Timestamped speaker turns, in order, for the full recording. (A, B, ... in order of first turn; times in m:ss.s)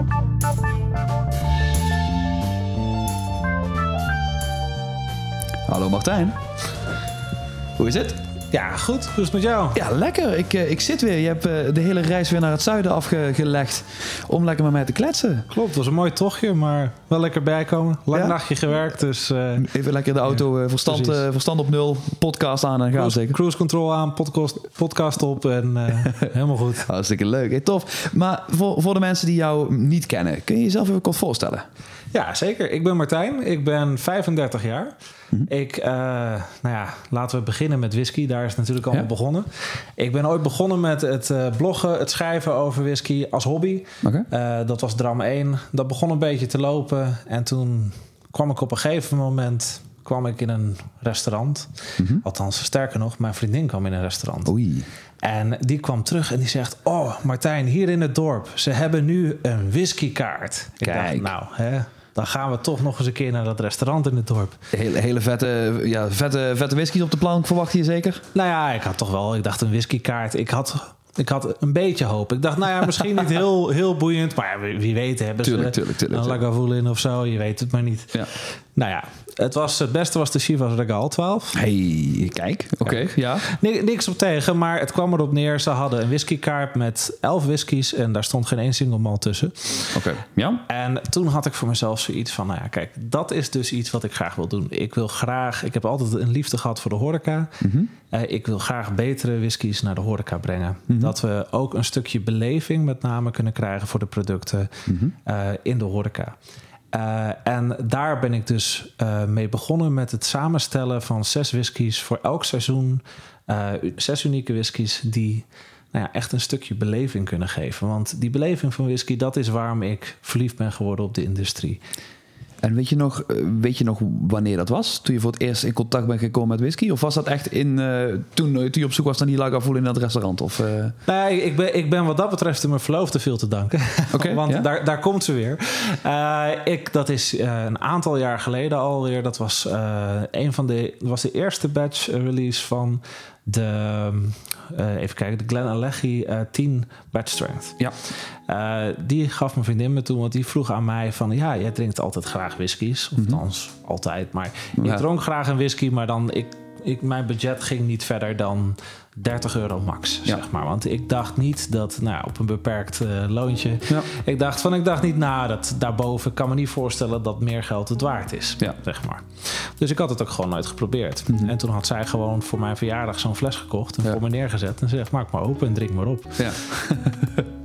0:05.7-0:06.4 A
0:07.8-0:08.2 A
0:08.5-0:09.8 B
0:09.7-0:15.5 A
0:15.5-0:19.7 B
0:18.1-0:18.4 A
0:19.6-0:23.4 A
0:20.3-0:21.2 B
0:22.9-0:26.8 B
0:26.0-0:31.6 A
0:32.1-0:34.9 B
0:35.5-0:54.5 B
0:44.0-0:44.3 A
0:52.0-0:52.2 A
0:54.4-0:54.9 A
0:55.2-1:04.6 B
1:00.8-1:01.3 A
1:04.7-1:08.2 A
1:08.3-1:21.6 B
1:15.4-1:16.4 A
1:21.5-1:23.4 A
1:22.8-1:30.0 B
1:29.9-1:30.6 A
1:30.7-1:46.3 B
1:37.6-1:37.9 A
1:40.9-1:41.1 A
1:44.9-1:45.1 A
1:46.9-2:01.8 B
2:02.6-2:11.0 A
2:11.0-2:27.8 B
2:14.1-2:14.7 A
2:28.5-2:56.5 B
2:34.8-2:35.0 A
2:51.3-2:51.5 A
2:56.4-2:57.5 A